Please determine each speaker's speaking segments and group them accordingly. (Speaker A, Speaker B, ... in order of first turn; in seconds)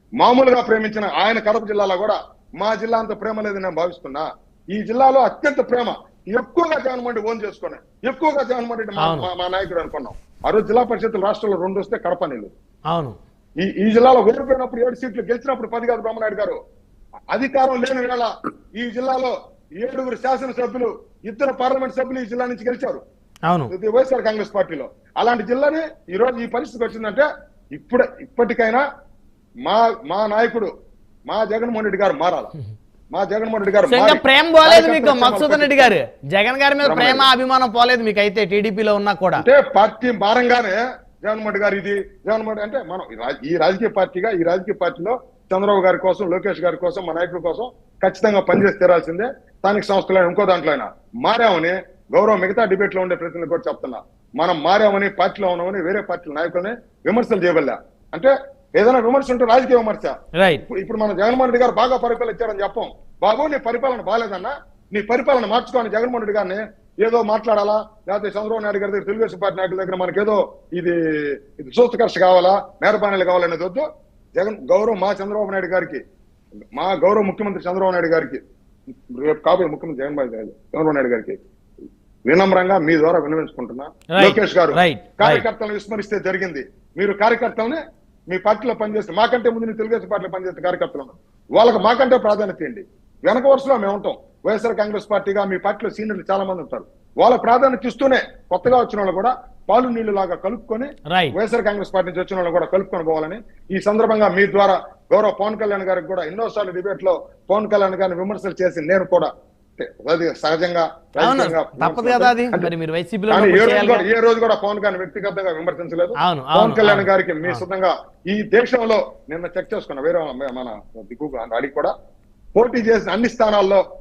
Speaker A: 0.2-12.5, 13.6-16.6, 17.3-23.0, 23.7-28.8, 29.7-30.7, 31.3-32.5, 33.1-36.0, 36.8-37.3, 39.4-71.0, 71.5-76.0, 76.8-78.4, 79.1-81.4, 82.3-112.7, 113.3-121.9, 122.5-123.8
Speaker B: 9.0-9.3, 12.9-13.2, 23.5-23.7, 33.9-39.5, 60.4-60.6, 84.1-85.5, 101.1-101.3, 111.2-114.1, 116.2-117.6